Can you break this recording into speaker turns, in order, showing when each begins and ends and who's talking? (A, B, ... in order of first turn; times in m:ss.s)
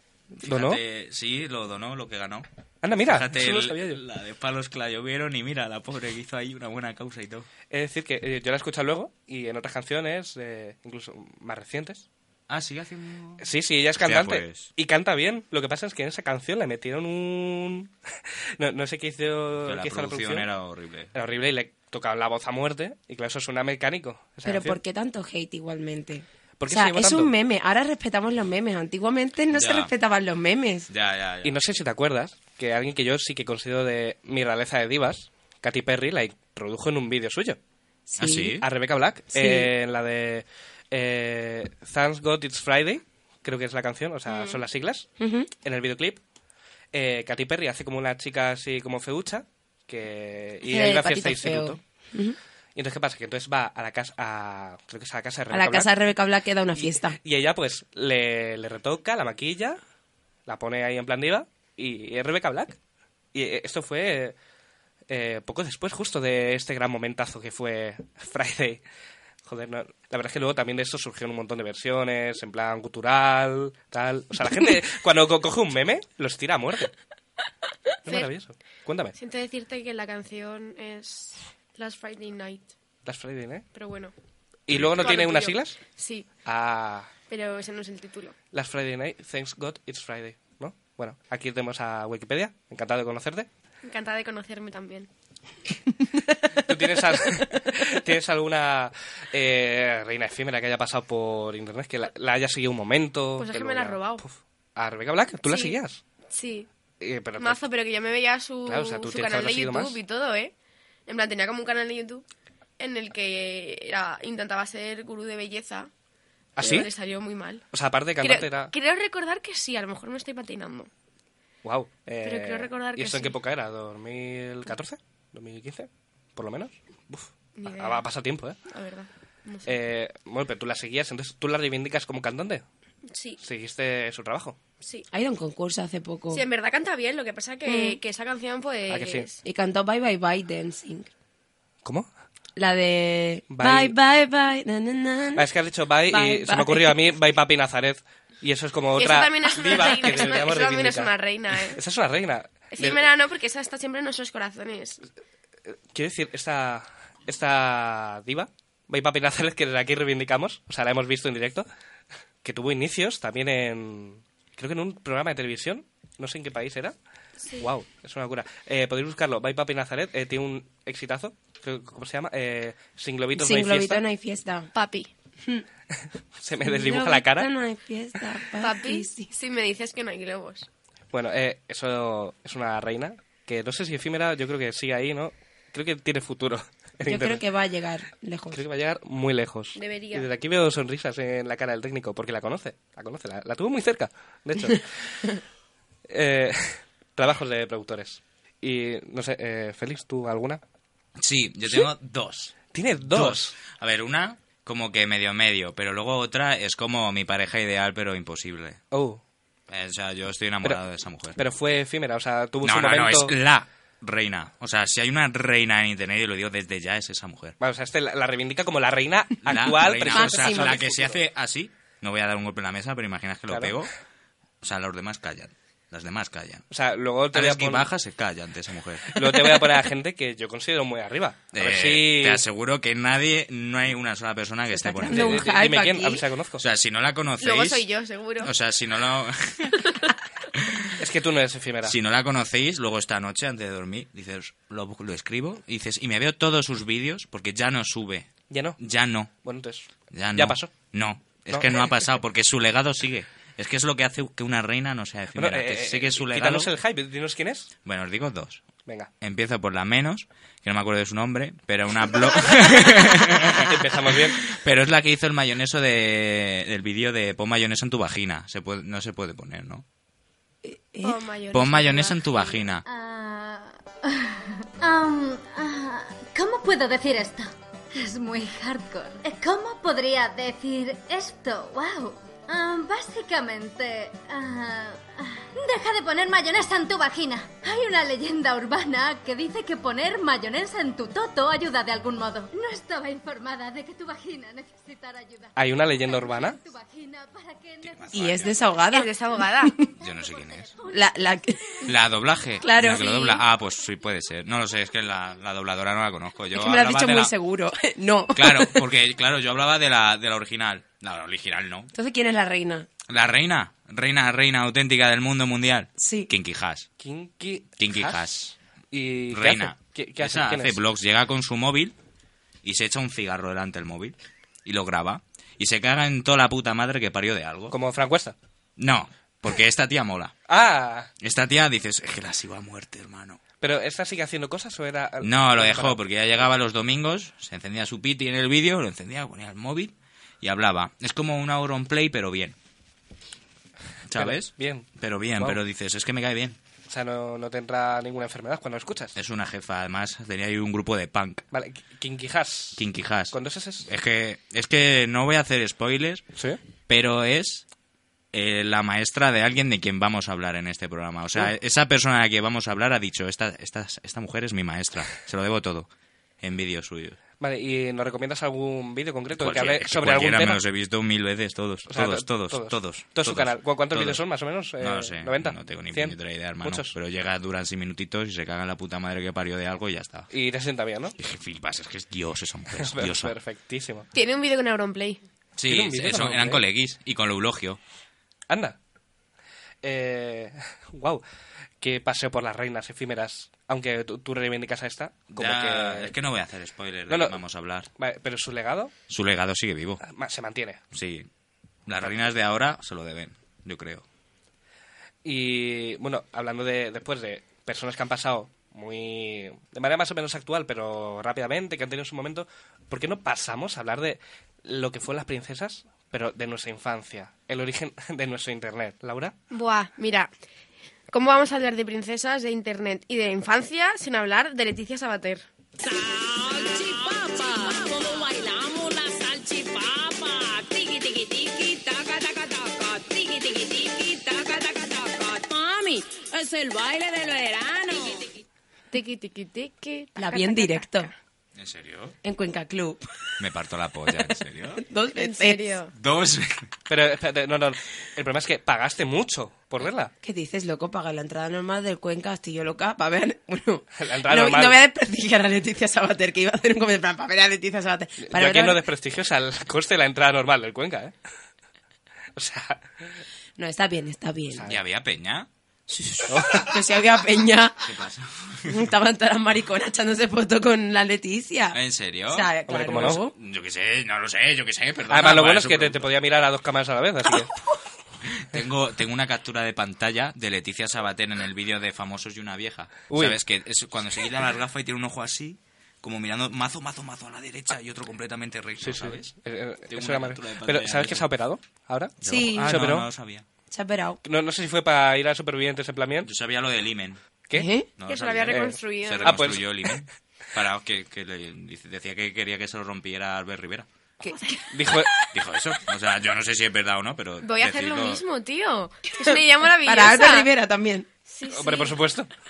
0:00.4-0:02.5 A
0:00.4-0:00.8 B
0:02.8-0:04.0 B
0:03.0-0:07.5 A
0:07.7-0:12.0 B
0:12.5-0:13.5 A
0:13.4-0:17.9 B
0:14.0-0:14.7 A
0:18.6-0:20.5 B
0:19.6-0:21.1 A
0:21.1-0:24.8 B
0:24.4-0:30.9 C
0:26.6-0:27.3 B
0:29.5-0:29.9 A
0:30.9-0:31.6 A
0:31.4-0:37.6 B
0:38.1-0:38.6 C
0:38.2-0:38.7 A
0:38.6-0:45.1 B
0:39.3-0:39.7 C
0:44.3-0:44.6 D
0:45.2-0:45.5 C
0:45.6-0:46.2 B
0:46.9-0:51.8 B
0:50.6-0:52.4 C
0:52.8-0:55.9 B
0:55.5-0:57.2 C
0:56.8-0:59.8 B
1:00.5-1:02.8 B
1:03.3-1:04.4 B
1:05.1-1:08.8 B
1:09.5-1:16.9 B
1:18.0-1:19.2 B
1:19.2-1:22.7 D
1:23.0-1:23.7 B
1:23.7-1:24.1 D
1:24.7-1:25.8 B
1:24.7-1:25.2 A
1:25.0-1:26.3 D
1:26.4-1:27.1 B
1:27.3-1:28.4 D
1:28.5-1:33.5 B
1:33.8-1:35.1 D
1:36.6-1:46.0 B
1:43.4-1:44.2 D
1:45.4-1:45.8 D
1:46.3-1:46.7 D
1:47.0-1:47.6 B
1:47.4-1:50.5 D
1:48.7-1:50.0 B
1:51.1-1:52.2 D
1:52.8-1:55.9 D
1:56.6-1:56.9 B
1:56.6-1:57.6 D
1:57.7-1:58.7 B
1:58.2-2:00.9 D
2:01.6-2:08.6 B
2:02.2-2:03.4 D
2:07.6-2:08.1 D
2:08.7-2:09.8 D
2:09.6-2:12.6 B
2:13.1-2:13.4 D
2:13.4-2:14.6 B
2:14.8-2:15.1 D
2:15.1-2:16.4 C
2:16.3-2:19.4 D
2:17.6-2:18.0 C
2:18.9-2:19.3 B
2:19.4-2:21.1 C
2:22.6-2:25.5 C
2:23.5-2:23.9 B
2:25.4-2:31.2 B
2:26.1-2:27.0 C
2:29.0-2:31.8 D
2:31.7-2:33.0 B
2:32.7-2:35.0 D
2:35.7-2:41.7 B
2:42.4-2:47.0 B
2:47.6-2:54.0 B
2:53.3-2:54.7 C
2:54.7-2:55.1 D
2:56.4-2:57.5 B
2:56.6-2:59.3 C
2:58.6-3:00.7 D
3:01.1-3:07.4 B
3:07.1-3:08.6 C
3:08.5-3:15.4 B
3:09.8-3:10.3 D
3:16.1-3:20.6 B
3:21.2-3:28.8 A
3:22.7-3:23.6 B
3:28.9-3:29.2 B
3:29.7-3:31.4 A
3:31.4-3:33.3 B
3:32.6-3:37.6 A
3:37.6-3:41.2 B
3:39.4-3:43.9 A
3:40.1-3:40.9 C
3:43.5-3:43.8 B
3:44.6-3:46.7 A
3:46.7-3:47.9 B
3:47.3-3:49.2 A
3:49.1-3:52.4 B
3:51.5-3:55.6 A
3:54.7-3:56.2 C
3:55.0-3:56.6 B
3:56.6-3:57.9 A
3:57.4-3:58.5 D
3:58.4-4:00.0 A
4:00.6-4:00.9 A
4:01.0-4:01.9 B
4:01.8-4:09.3 A
4:08.5-4:08.8 B
4:09.4-4:10.8 B
4:10.1-4:16.7 A
4:11.5-4:11.9 B
4:15.4-4:17.7 B
4:17.8-4:18.6 A
4:19.2-4:29.8 A
4:23.5-4:24.5 B
4:30.6-4:31.2 C
4:31.0-4:32.6 D
4:31.5-4:32.8 A
4:32.8-4:58.6 E
4:55.6-4:56.6 B
4:57.8-4:58.6 A
4:58.1-4:59.9 C
4:58.9-4:59.8 D
4:59.9-5:01.5 E
5:00.0-5:00.8 A
5:00.9-5:01.9 C
5:01.8-5:07.3 A
5:02.6-5:03.4 C
5:06.5-5:08.9 C
5:08.3-5:11.9 A
5:11.9-5:12.9 C
5:13.1-5:16.9 A
5:16.0-5:16.3 C
5:17.0-5:18.2 B
5:17.8-5:18.5 A
5:18.9-5:20.8 B
5:19.3-5:21.9 A
5:22.6-5:27.8 A
5:27.7-5:28.4 B
5:28.8-5:30.3 A
5:30.5-5:31.1 B
5:31.2-5:33.4 A
5:33.6-5:36.0 B
5:35.2-5:42.6 A
5:44.1-5:46.6 A
5:44.1-5:44.9 B
5:46.9-5:49.2 B
5:49.2-5:51.4 A
5:51.5-5:52.8 B
5:52.8-5:56.2 A
5:53.3-5:53.9 B
5:56.9-5:57.6 A
5:58.3-6:05.9 A
6:06.4-6:07.2 A
6:07.4-6:10.6 B
6:09.4-6:14.2 A
6:11.9-6:16.9 B
6:14.8-6:20.3 A
6:20.3-6:21.1 B
6:21.2-6:23.4 A
6:22.8-6:24.1 B
6:24.1-6:25.2 D
6:25.6-6:27.8 A
6:25.7-6:26.6 B
6:28.5-6:28.8 B
6:29.8-6:31.2 B
6:31.8-6:36.1 B
6:35.3-6:37.9 A
6:37.1-6:37.4 B
6:38.0-6:38.9 B
6:39.1-6:40.0 A
6:40.0-6:40.8 B
6:40.9-6:41.3 A
6:41.9-6:44.0 A
6:45.2-6:59.4 B
6:59.5-7:00.3 D
7:01.1-7:05.5 D
7:05.8-7:18.3 F
7:18.9-7:21.1 D
7:20.2-7:21.1 C
7:21.6-7:22.2 A
7:22.2-7:23.0 C
7:23.4-7:24.8 A
7:24.2-7:25.7 C
7:25.2-7:25.9 D
7:26.0-7:26.7 A
7:26.9-7:30.1 B
7:30.2-7:38.8 C
7:34.0-7:34.8 B
7:38.2-7:41.1 B
7:42.4-7:43.1 B
7:43.6-7:44.7 C
7:44.7-7:45.5 A
7:45.9-7:47.9 C
7:46.3-7:46.8 B
7:47.8-7:48.8 A
7:48.7-7:53.3 C
7:51.7-7:56.1 A
7:52.7-7:53.2 B
7:55.1-7:57.5 B
7:58.4-8:09.3 A
8:03.1-8:03.4 B
8:08.8-8:13.1 B
8:09.9-8:11.3 A
8:12.2-8:13.4 A
8:12.2-8:12.9 C
8:13.7-8:14.2 C
8:14.2-8:16.3 B
8:16.2-8:17.2 A
8:17.5-8:17.9 C
8:18.0-8:23.9 A
8:18.1-8:19.3 D
8:18.5-8:19.9 B
8:24.2-8:25.0 C
8:24.7-8:25.1 B
8:25.3-8:28.2 A
8:27.4-8:30.5 D
8:29.8-8:31.1 C
8:31.3-8:32.0 D
8:31.5-8:32.3 B